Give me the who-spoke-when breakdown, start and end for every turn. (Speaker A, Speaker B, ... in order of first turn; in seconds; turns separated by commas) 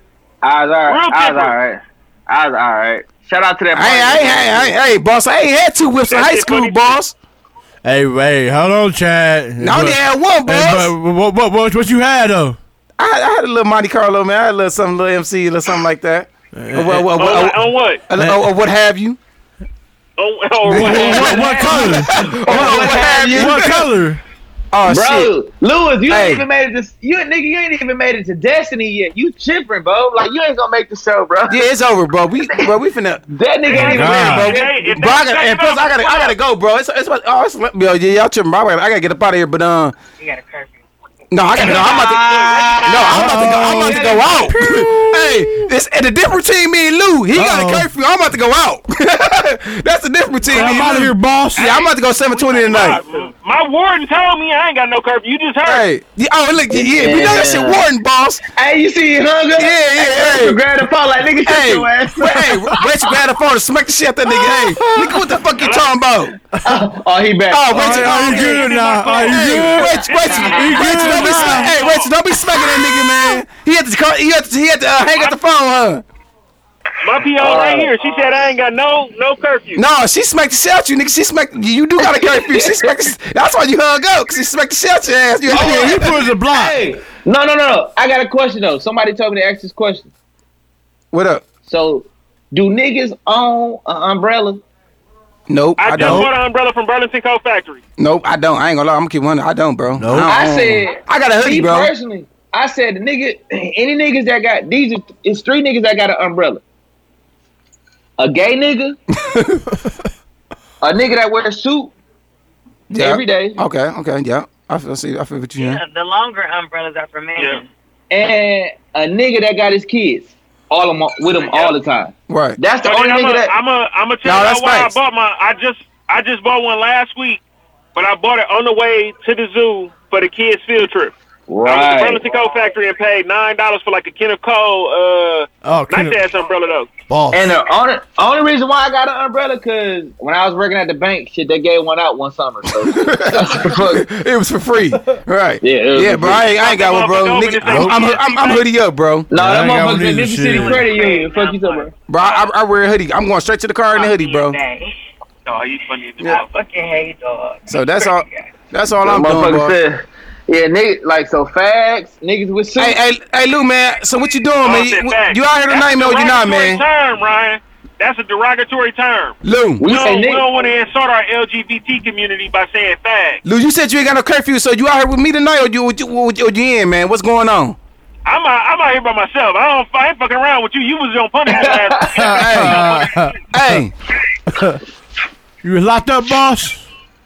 Speaker A: 0.4-4.7, Speaker B: 0.9-1.5, Speaker C: 3.7-7.1, Speaker B: 6.1-6.9, Speaker D: 7.8-12.6, Speaker C: 9.6-10.9, Speaker C: 13.0-19.2, Speaker D: 16.5-17.3, Speaker B: 17.1-18.1, Speaker D: 18.1-18.4, Speaker B: 20.2-22.1, Speaker C: 20.7-23.9, Speaker D: 20.7-24.2, Speaker A: 21.4-23.7, Speaker C: 24.7-25.3, Speaker A: 24.9-31.6, Speaker C: 26.1-26.4, Speaker C: 31.5-33.2, Speaker A: 32.4-32.7, Speaker A: 33.3-34.9, Speaker B: 33.7-36.4, Speaker D: 33.8-34.5, Speaker C: 34.2-39.9, Speaker E: 40.2-40.8, Speaker C: 41.3-53.0, Speaker B: 41.6-43.1, Speaker A: 41.6-44.5, Speaker D: 43.1-45.7, Speaker D: 47.3-47.9, Speaker D: 50.5-51.7, Speaker B: 50.6-50.9, Speaker B: 51.5-55.8, Speaker C: 55.6-58.4, Speaker A: 56.7-57.8, Speaker A: 58.5-62.9, Speaker C: 59.6-60.6, Speaker C: 61.5-66.3, Speaker D: 64.2-65.4, Speaker B: 65.6-65.9, Speaker A: 66.6-67.8, Speaker C: 67.5-76.0, Speaker D: 67.7-71.8, Speaker B: 67.8-72.1, Speaker B: 77.0-79.8, Speaker A: 77.3-78.3, Speaker C: 79.7-86.2, Speaker A: 82.0-82.9, Speaker D: 85.5-86.8, Speaker A: 85.5-90.1, Speaker C: 91.1-91.4, Speaker A: 91.6-94.6, Speaker C: 95.5-96.3, Speaker B: 95.8-97.8, Speaker D: 96.0-96.3, Speaker C: 98.0-101.9, Speaker D: 100.0-100.4, Speaker A: 100.3-106.6, Speaker A: 108.2-109.0, Speaker C: 109.2-109.6, Speaker A: 110.8-111.9, Speaker A: 112.9-113.6, Speaker C: 112.9-115.8, Speaker E: 115.5-117.7, Speaker B: 117.3-117.6, Speaker A: 118.1-123.5, Speaker B: 121.4-121.7, Speaker C: 122.3-122.6, Speaker B: 122.8-127.4, Speaker C: 124.2-124.9, Speaker B: 127.9-131.1, Speaker A: 131.5-132.3, Speaker B: 131.6-136.9, Speaker D: 135.6-136.2, Speaker D: 137.1-137.5, Speaker A: 137.3-144.1, Speaker C: 142.9-149.3, Speaker A: 145.6-146.5, Speaker B: 146.4-148.7, Speaker D: 147.7-148.1, Speaker A: 149.3-151.9, Speaker D: 149.3-150.9, Speaker E: 150.6-151.8, Speaker C: 152.1-154.6, Speaker E: 153.9-154.9, Speaker B: 155.4-156.4, Speaker E: 156.2-158.5, Speaker C: 157.7-159.7, Speaker A: 159.0-163.0, Speaker C: 162.8-166.8, Speaker B: 164.6-173.4, Speaker C: 169.4-169.8, Speaker A: 169.8-170.5, Speaker C: 173.4-177.8, Speaker B: 178.2-183.3, Speaker A: 181.5-182.2, Speaker D: 182.2-183.3, Speaker C: 182.3-182.9, Speaker C: 183.5-183.9, Speaker D: 184.5-184.8, Speaker D: 185.6-186.8